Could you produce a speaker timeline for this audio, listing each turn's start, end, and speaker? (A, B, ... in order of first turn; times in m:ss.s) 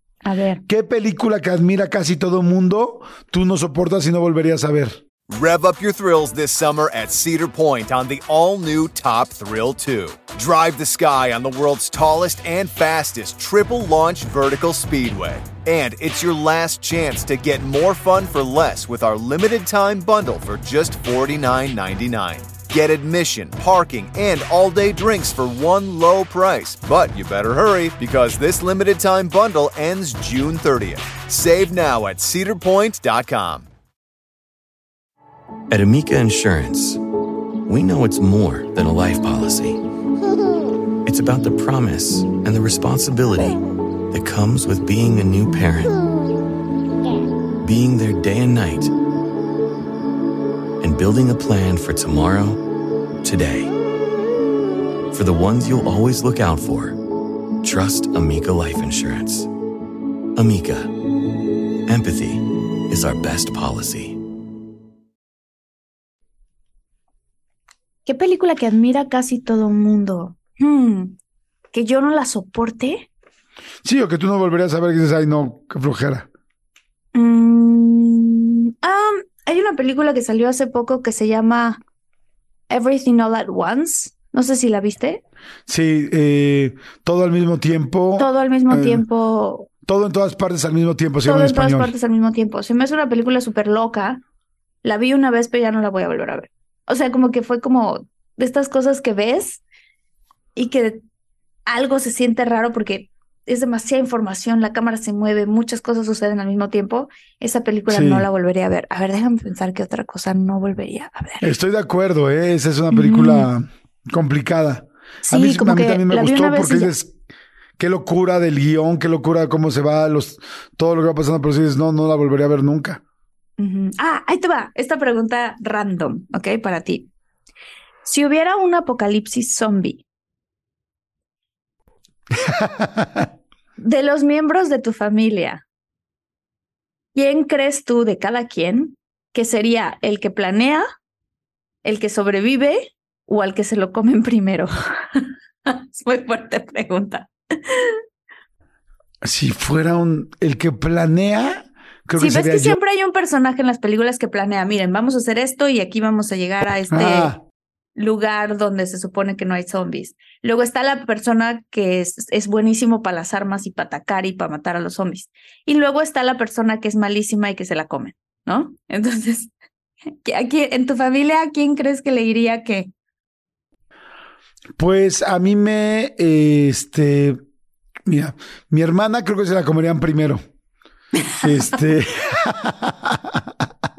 0:00.2-0:00.6 A
0:00.7-0:05.0 B
0:05.3-0:33.7 C
0:35.7-0:37.0 D
0:37.6-0:39.8 D
0:41.0-0:43.6 D
0:44.1-0:46.0 D
0:47.6-0:48.9 D
0:50.8-0:52.6 D
0:53.2-0:53.7 D
0:55.1-0:57.0 D
0:57.6-0:59.5 D
1:00.4-1:00.9 D
1:01.9-1:04.2 D
1:08.0-1:11.2 A
1:11.7-1:13.1 A
1:13.8-1:16.3 B
1:17.1-1:21.8 A
1:22.7-1:25.2 A
1:25.7-1:29.0 B
1:28.2-1:29.7 A
1:29.8-1:31.9 B
1:31.2-1:34.2 A
1:34.8-1:39.6 A
1:40.6-1:41.0 A
1:41.7-1:51.5 A
1:47.9-1:48.2 B
1:51.4-1:57.1 B
1:52.9-1:53.5 A
1:55.2-1:56.9 A
1:57.8-2:03.0 B
2:03.6-2:07.1 A
2:08.0-2:10.0 A
2:12.4-2:13.3 B
2:13.8-2:15.6 A
2:17.1-2:20.8 A
2:21.8-2:28.0 A
2:29.2-2:32.8 B
2:32.2-2:37.3 A
2:36.9-2:37.4 B
2:38.0-2:49.5 A
2:50.2-2:52.9 A
2:54.8-2:57.4 B
2:58.0-3:00.4 B
3:01.2-3:01.8 A
3:01.4-3:03.5 B